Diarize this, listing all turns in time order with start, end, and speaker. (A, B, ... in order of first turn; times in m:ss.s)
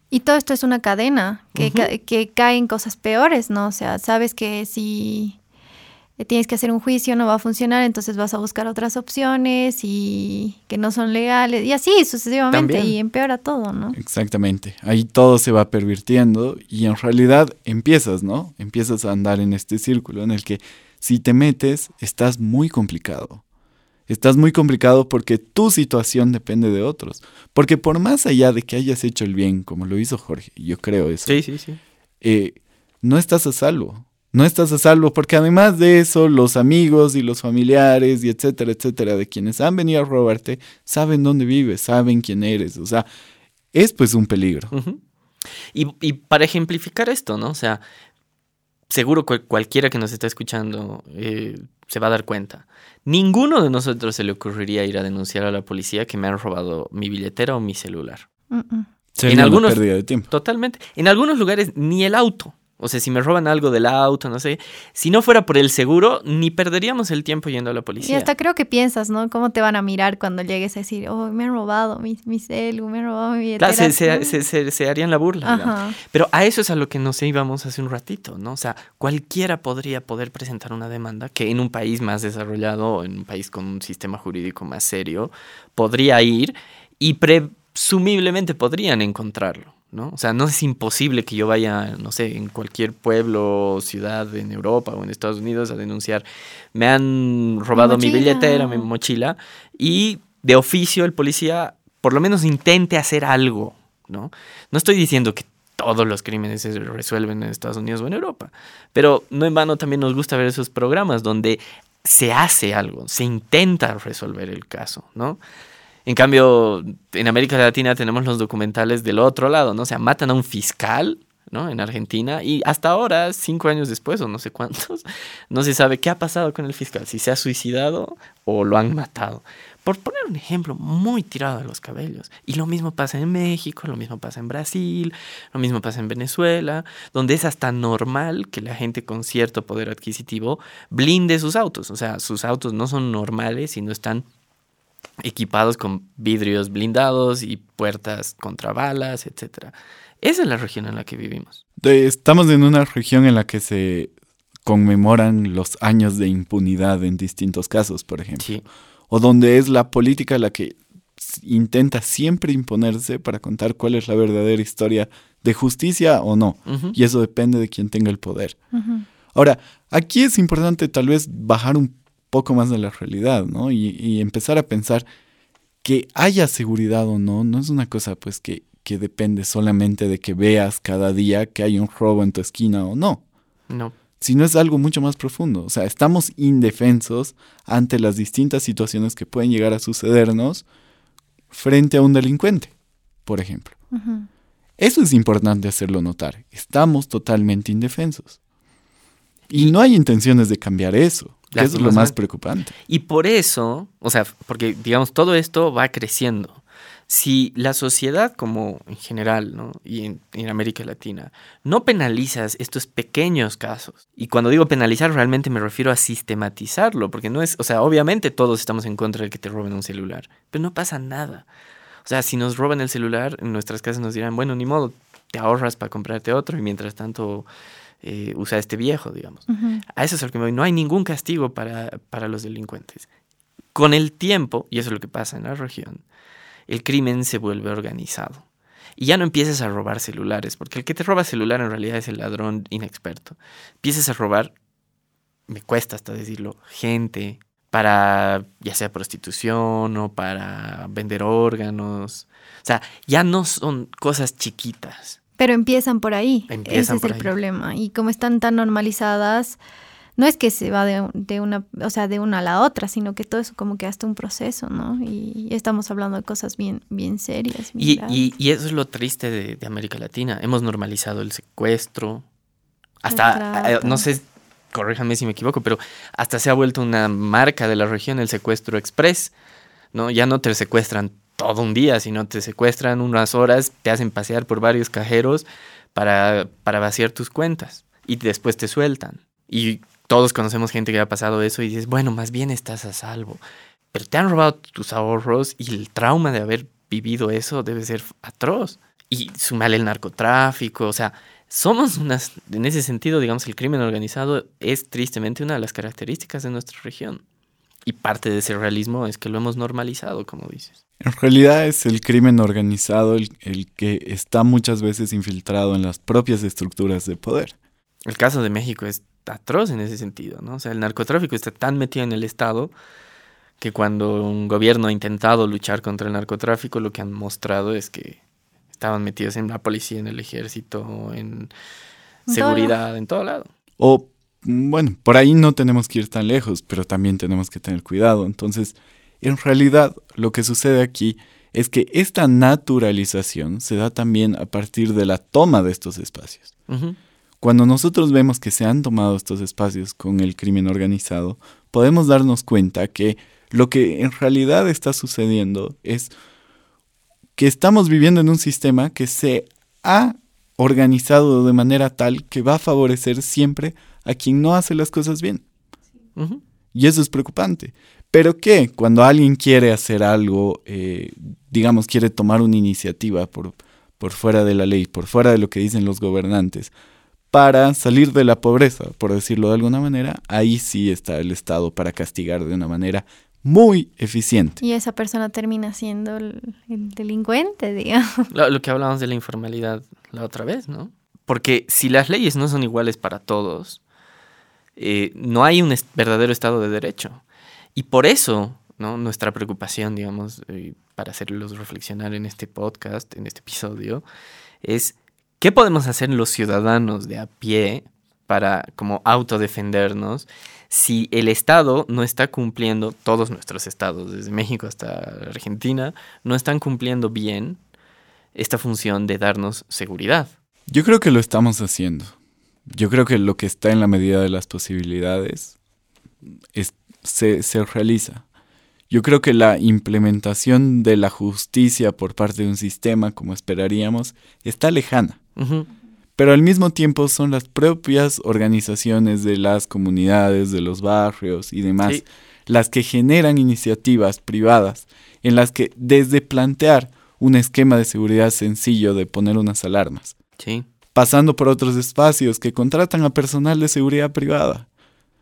0:00.1-0:05.4 A
0:01.6-0:01.9 B
0:06.2-0:14.0 A
0:12.5-0:13.0 B
0:14.0-0:23.4 C
0:24.1-0:31.4 C
0:31.3-0:31.8 B
0:32.2-0:43.1 C
0:43.7-0:44.7 C
0:44.7-0:45.0 B
0:45.7-0:47.8 B
0:48.9-0:58.2 B
0:58.5-0:58.9 A
0:59.2-1:00.3 C
0:59.3-1:08.3 B
1:08.0-1:14.4 A
1:13.6-1:55.4 B
1:15.4-1:16.0 A
1:37.8-1:38.9 A
1:56.1-2:24.2 B
2:25.2-2:31.6 B
2:31.8-2:34.1 C
2:34.6-2:38.5 C
2:38.4-2:38.6 B
2:39.1-2:48.6 C
2:46.7-2:47.0 B
2:48.7-2:49.0 A
2:49.3-2:55.0 C
2:55.8-3:03.2 C
3:03.7-3:04.0 B
3:04.2-3:10.6 C
3:11.5-3:12.7 C
3:13.2-3:13.8 C
3:13.9-3:14.3 A
3:14.8-3:18.4 C
3:19.5-3:22.7 C
3:21.5-3:22.2 B
3:22.9-3:41.5 B
3:42.0-3:47.5 B
3:48.0-3:53.1 B
3:49.5-3:49.8 A
3:53.8-3:56.0 B
3:56.7-3:58.4 B
3:59.0-4:04.5 B
4:05.5-4:15.2 B
4:15.4-4:19.6 A
4:16.5-4:17.3 B
4:20.2-4:28.3 A
4:27.8-4:32.2 B
4:33.0-4:39.3 B
4:33.1-4:34.0 A
4:39.9-4:53.4 B
4:53.9-5:07.2 B
5:07.8-5:10.8 B
5:11.0-5:17.6 C
5:18.1-5:22.7 B
5:23.6-5:28.2 B
5:28.8-5:31.5 B
5:32.3-5:32.8 A
5:32.3-5:33.5 B
5:33.8-5:46.5 C
5:46.7-5:47.0 B
5:47.4-5:56.1 C
5:57.4-6:05.4 C
6:06.2-6:06.4 B
6:06.7-6:16.7 C
6:17.3-6:24.6 C
6:24.6-6:28.3 A
6:28.3-6:33.8 B
6:34.8-6:37.2 B
6:37.8-6:44.0 B
6:44.6-6:57.6 B
6:58.4-7:00.3 B
7:00.7-7:02.1 C
7:02.7-7:05.6 C
7:06.6-7:08.2 C
7:08.9-7:15.2 C
7:15.4-7:15.7 B
7:16.2-7:30.2 C
7:30.4-7:30.7 B
7:31.0-7:34.7 C